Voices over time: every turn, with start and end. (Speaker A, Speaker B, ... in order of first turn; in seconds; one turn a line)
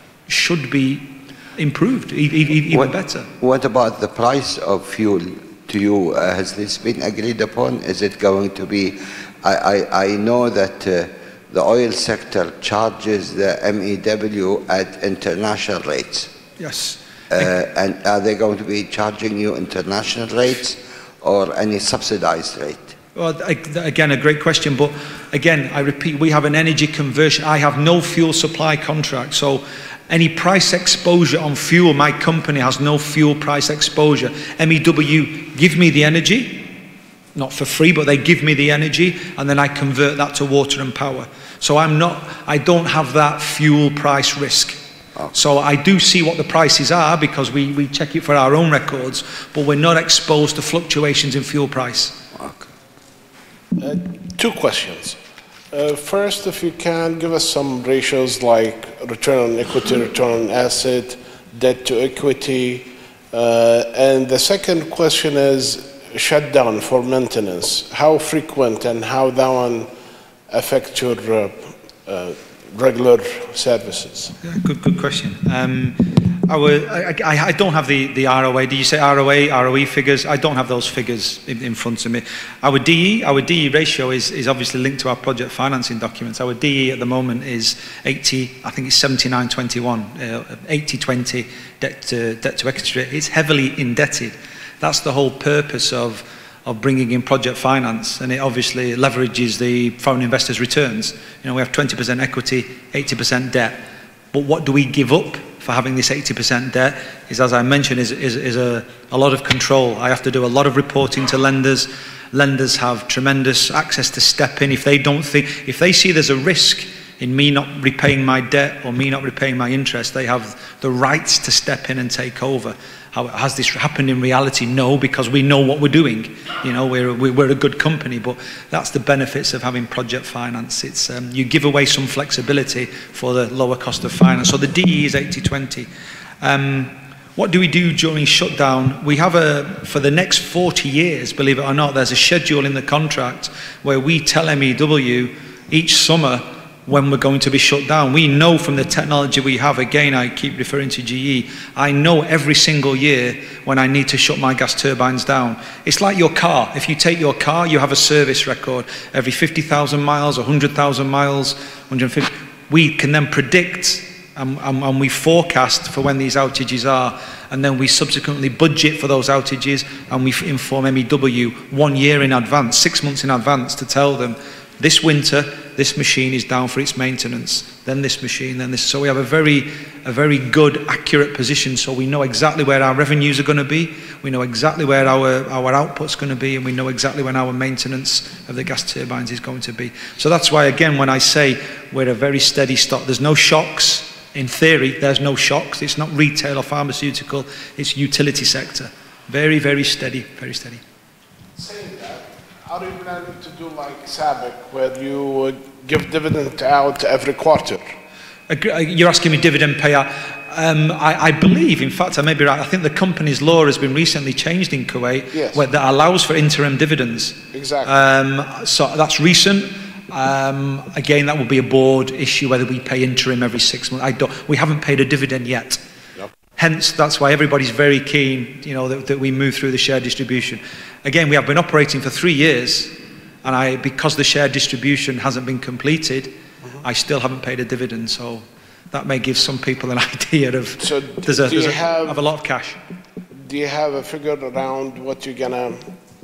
Speaker A: 0.3-3.3
Speaker B: 3.4-16.3
Speaker A: 16.6-17.0
Speaker B: 17.3-22.9
Speaker A: 23.2-36.7
Speaker A: 37.4-44.8
Speaker A: 45.3-52.2
Speaker B: 52.4-52.7
Speaker C: 53.8-55.2
Speaker C: 55.7-69.9
Speaker C: 70.5-74.3
Speaker A: 74.4-135.9
Speaker A: 136.4-200.8
Speaker C: 201.6-207.8
Speaker A: 208.5-225.8
Speaker C: 215.3-215.6
Speaker C: 217.5-218.0
Speaker A: 226.6-242.8
Speaker C: 240.8-242.2
Speaker C: 243.4-246.0